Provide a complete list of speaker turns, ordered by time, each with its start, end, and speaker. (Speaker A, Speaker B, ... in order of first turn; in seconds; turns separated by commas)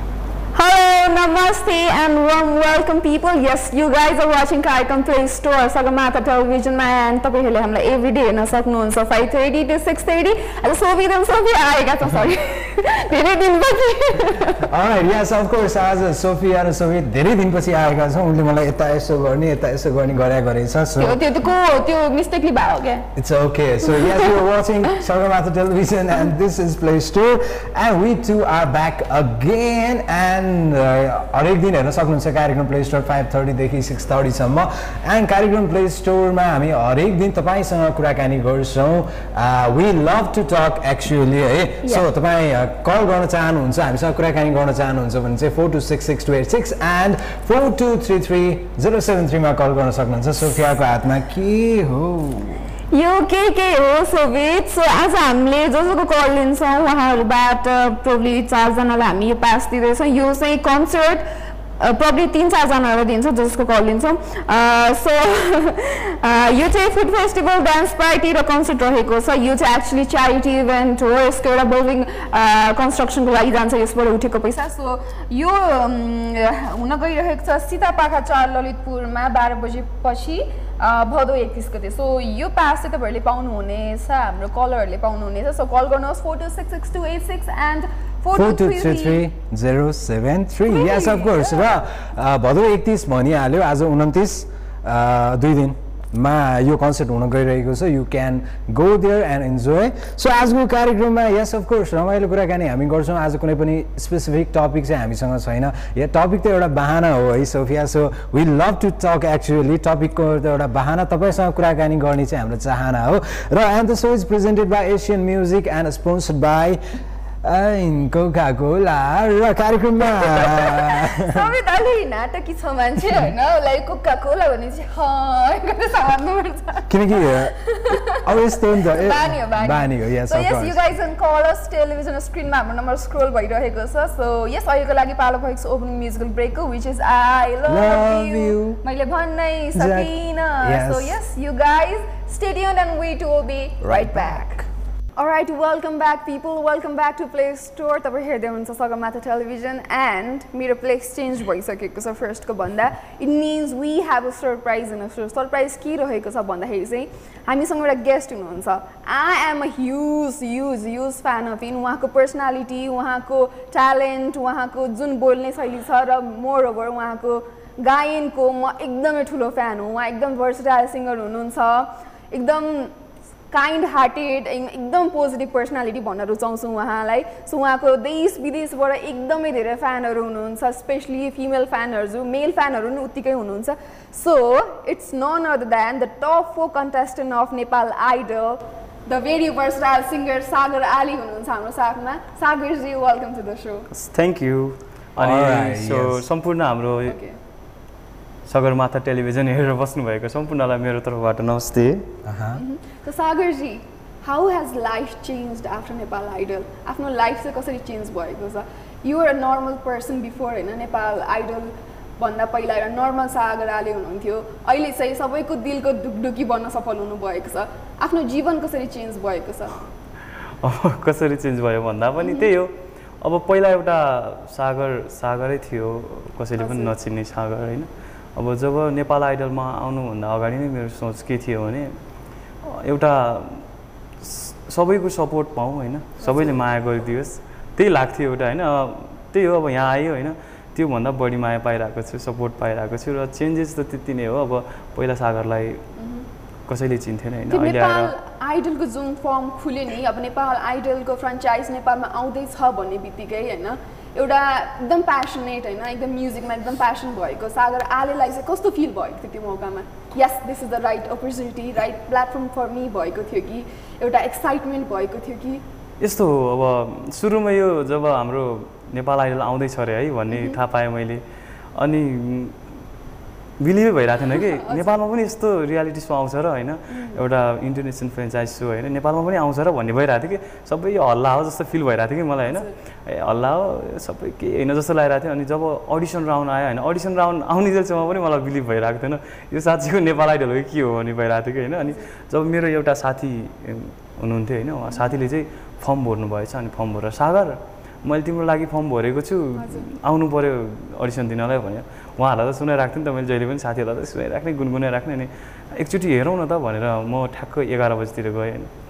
Speaker A: 0.5-14.7, Speaker B: 14.6-21.2, Speaker A: 21.0-23.1, Speaker B: 23.1-52.5, Speaker A: 23.9-24.3, Speaker A: 52.9-61.2, Speaker A: 61.8-89.2, Speaker B: 88.3-116.8, Speaker A: 90.7-91.7, Speaker B: 117.4-121.4, Speaker A: 120.8-144.6, Speaker B: 126.9-130.8, Speaker B: 137.7-138.8, Speaker B: 139.7-141.2, Speaker B: 143.8-144.5, Speaker A: 145.2-172.9, Speaker A: 173.5-193.8, Speaker C: 193.9-197.2, Speaker B: 195.2-196.2, Speaker A: 197.1-197.4, Speaker C: 198.5-202.1, Speaker B: 202.2-202.6, Speaker A: 202.5-219.8, Speaker C: 220.6-231.9, Speaker A: 222.2-222.5, Speaker A: 226.6-226.9, Speaker C: 232.6-233.6, Speaker C: 234.2-245.8, Speaker A: 236.2-236.6, Speaker A: 246.0-246.2, Speaker C: 246.7-248.1, Speaker A: 247.5-265.6, Speaker C: 266.0-271.2, Speaker A: 270.3-270.6, Speaker C: 271.8-272.6, Speaker C: 273.6-308.7, Speaker A: 274.3-274.8, Speaker A: 276.9-277.2, Speaker A: 291.8-292.1, Speaker A: 294.9-295.2, Speaker A: 299.6-299.8